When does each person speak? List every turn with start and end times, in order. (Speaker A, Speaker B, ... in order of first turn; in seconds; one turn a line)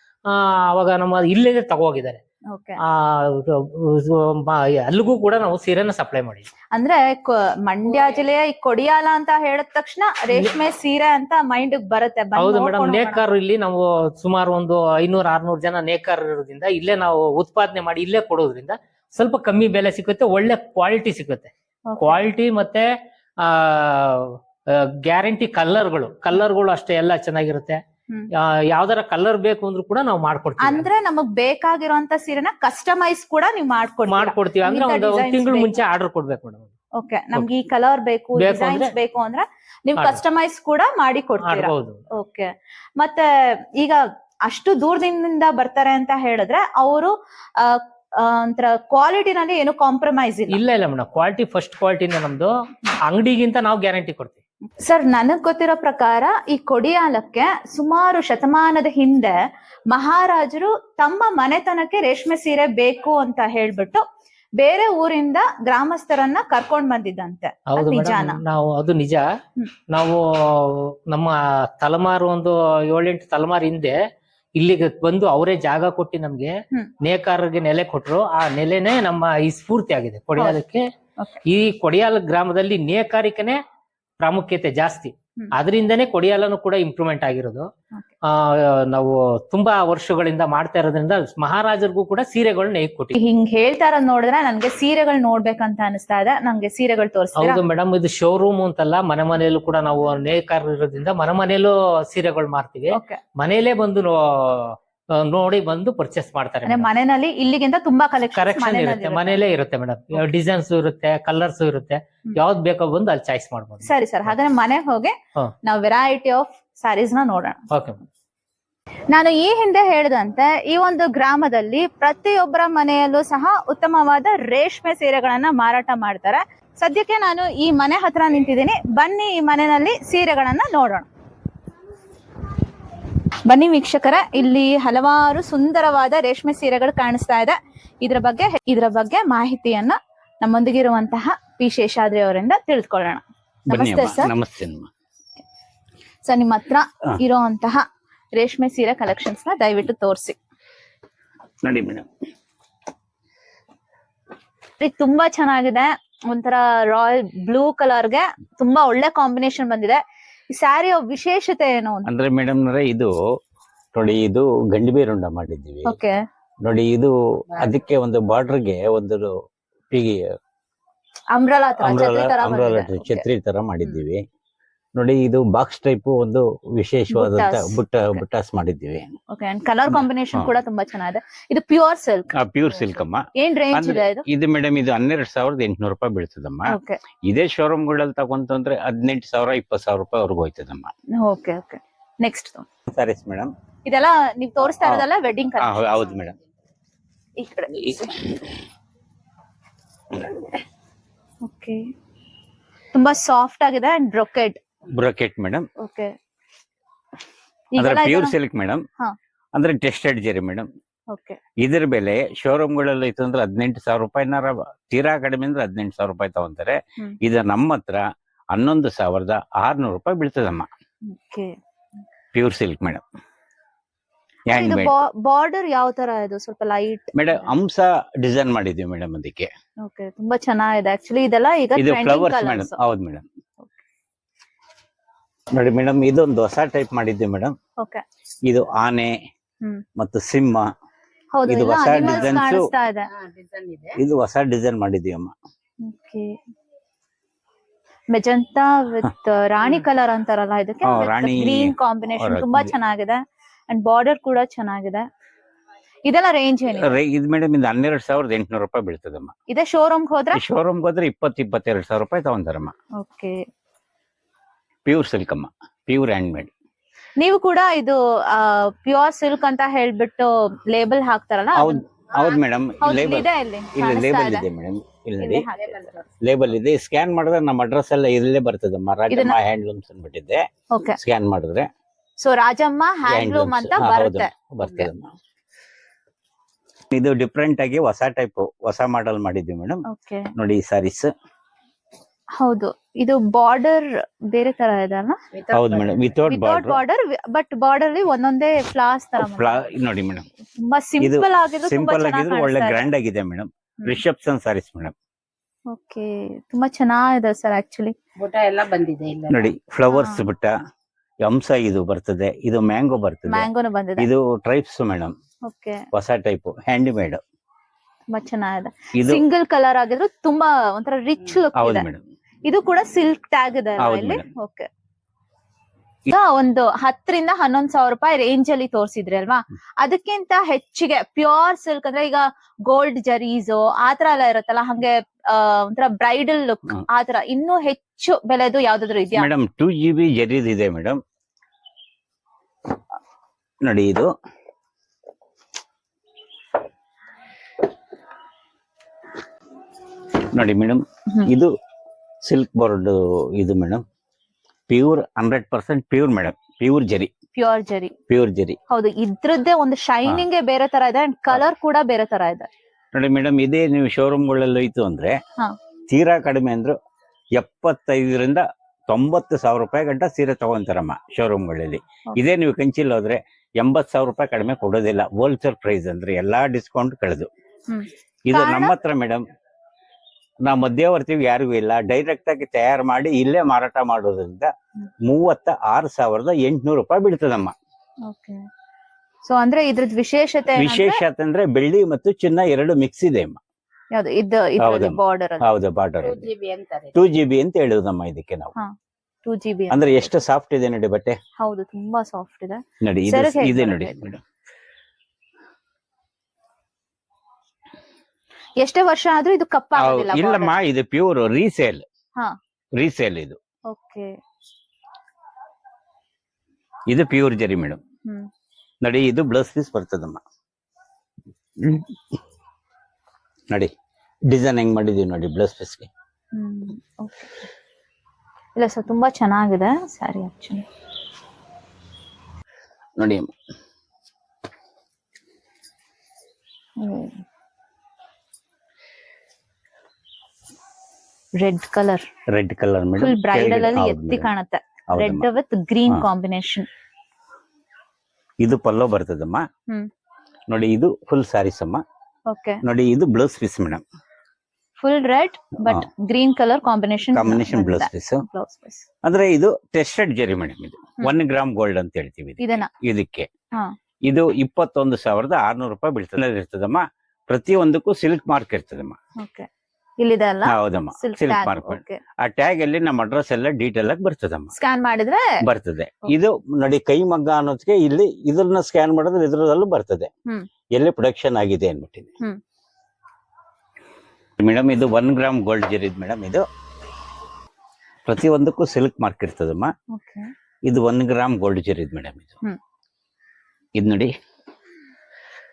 Speaker A: 0.3-2.2
Speaker B: 2.5-2.8
Speaker A: 2.8-6.5
Speaker B: 6.7-13.2
Speaker A: 12.4-22.9
Speaker B: 21.9-22.2
Speaker A: 23.4-27.8
Speaker A: 28.4-30.9
Speaker B: 30.6-35.8
Speaker A: 34.1-36.7
Speaker B: 37.0-43.3
Speaker A: 38.4-38.9
Speaker A: 41.4-42.0
Speaker B: 43.8-50.6
Speaker A: 50.5-52.5
Speaker A: 53.1-54.4
Speaker B: 54.8-59.4
Speaker B: 59.9-64.0
Speaker B: 64.6-68.4
Speaker A: 67.7-69.3
Speaker A: 69.9-74.0
Speaker A: 74.6-80.8
Speaker A: 81.5-83.6
Speaker A: 84.2-87.7
Speaker A: 88.3-93.1
Speaker B: 93.2-97.6
Speaker A: 97.4-106.9
Speaker B: 102.9-103.2
Speaker B: 106.7-109.4
Speaker A: 108.3-114.3
Speaker B: 113.8-117.6
Speaker A: 117.7-118.0
Speaker B: 119.1-131.1
Speaker B: 133.5-144.3
Speaker C: 143.7-144.9
Speaker B: 146.2-150.4
Speaker C: 151.6-152.1
Speaker B: 154.8-162.1
Speaker C: 162.1-163.2
Speaker C: 163.9-166.0
Speaker B: 165.9-166.2
Speaker C: 166.6-169.3
Speaker C: 169.9-170.2
Speaker B: 171.3-173.2
Speaker C: 171.8-174.2
Speaker C: 175.0-179.1
Speaker B: 177.1-178.2
Speaker B: 179.3-184.3
Speaker C: 179.9-180.5
Speaker C: 182.4-190.9
Speaker B: 186.7-187.0
Speaker B: 191.2-192.7
Speaker C: 192.9-193.5
Speaker B: 193.8-195.9
Speaker C: 195.6-196.4
Speaker B: 197.4-198.3
Speaker B: 201.4-201.8
Speaker B: 202.9-204.6
Speaker C: 204.9-205.7
Speaker B: 205.8-206.1
Speaker B: 207.7-208.3
Speaker C: 207.8-208.8
Speaker C: 209.6-210.7
Speaker B: 211.1-211.4
Speaker C: 211.6-218.0
Speaker C: 218.5-220.7
Speaker B: 221.1-221.6
Speaker C: 222.3-223.0
Speaker C: 224.5-224.9
Speaker B: 224.5-227.5
Speaker C: 227.2-229.5
Speaker B: 229.8-232.8
Speaker C: 231.8-233.2
Speaker C: 235.5-237.5
Speaker C: 238.5-239.2
Speaker C: 240.0-240.7
Speaker B: 241.3-243.1
Speaker C: 241.5-242.7
Speaker D: 241.9-242.3
Speaker D: 243.1-244.0
Speaker C: 244.0-245.3
Speaker B: 245.8-246.3
Speaker B: 248.1-255.1
Speaker C: 250.8-252.7
Speaker B: 256.1-256.9
Speaker C: 256.8-259.3
Speaker B: 259.5-260.4
Speaker C: 260.3-262.7
Speaker B: 263.0-263.4
Speaker C: 264.9-266.5
Speaker B: 267.2-271.8
Speaker C: 271.6-275.5
Speaker B: 272.8-274.5
Speaker B: 275.2-276.0
Speaker D: 275.6-276.0
Speaker C: 276.2-280.4
Speaker B: 279.1-279.4
Speaker B: 280.7-281.0
Speaker C: 281.0-281.7
Speaker B: 282.2-284.9
Speaker C: 283.1-285.1
Speaker C: 286.9-289.8
Speaker B: 289.9-290.3
Speaker C: 290.4-291.1
Speaker B: 292.4-295.2
Speaker D: 295.3-296.2
Speaker C: 295.5-296.8
Speaker B: 296.3-299.6
Speaker C: 299.2-300.3
Speaker B: 300.6-302.9
Speaker C: 301.0-304.9
Speaker B: 305.7-307.9
Speaker D: 308.2-309.5
Speaker C: 309.3-310.5
Speaker B: 309.9-310.3
Speaker C: 311.2-315.1
Speaker B: 313.3-314.1
Speaker B: 315.5-315.8
Speaker C: 315.9-317.2
Speaker B: 318.1-321.9
Speaker C: 319.0-319.2
Speaker C: 321.6-322.0
Speaker B: 322.4-324.7
Speaker C: 323.8-324.2
Speaker B: 326.1-339.3
Speaker C: 339.1-341.0
Speaker C: 343.6-344.1
Speaker C: 350.3-351.5
Speaker C: 352.2-353.8
Speaker C: 354.7-357.1
Speaker B: 357.4-357.9
Speaker C: 358.1-358.6
Speaker B: 358.7-362.5
Speaker C: 362.9-365.2
Speaker C: 365.9-366.8
Speaker C: 367.4-377.3
Speaker B: 377.7-378.7
Speaker C: 378.3-379.2
Speaker C: 380.4-384.5
Speaker C: 385.0-387.5
Speaker B: 388.1-388.4
Speaker B: 389.2-391.0
Speaker C: 390.6-393.4
Speaker B: 393.9-395.5
Speaker C: 394.6-396.3
Speaker D: 396.0-397.0
Speaker C: 396.9-398.5
Speaker B: 399.2-400.1
Speaker C: 399.7-401.2
Speaker B: 401.4-404.1
Speaker C: 402.8-404.2
Speaker B: 408.6-410.5
Speaker C: 409.8-411.8
Speaker C: 412.8-413.4
Speaker B: 413.7-414.1
Speaker C: 416.9-417.8
Speaker C: 418.8-420.2
Speaker C: 421.6-421.9
Speaker C: 424.3-425.9
Speaker B: 426.3-427.3
Speaker B: 428.6-430.6
Speaker C: 433.0-433.3
Speaker B: 436.8-437.2
Speaker B: 441.4-442.1
Speaker C: 442.3-444.3
Speaker B: 443.0-446.7
Speaker C: 444.9-445.3
Speaker C: 448.4-449.5
Speaker C: 450.5-451.8
Speaker B: 452.3-452.6
Speaker C: 452.6-453.8
Speaker B: 454.8-458.9
Speaker C: 457.1-458.2
Speaker C: 459.0-463.3
Speaker B: 462.4-462.7
Speaker C: 464.0-469.0
Speaker B: 469.2-469.5
Speaker B: 470.0-472.0
Speaker C: 470.5-474.5
Speaker B: 474.5-475.3
Speaker C: 475.4-480.1
Speaker C: 480.7-482.1
Speaker C: 484.4-486.4
Speaker C: 488.1-489.7
Speaker B: 489.9-490.3
Speaker C: 490.7-492.3
Speaker C: 493.8-494.1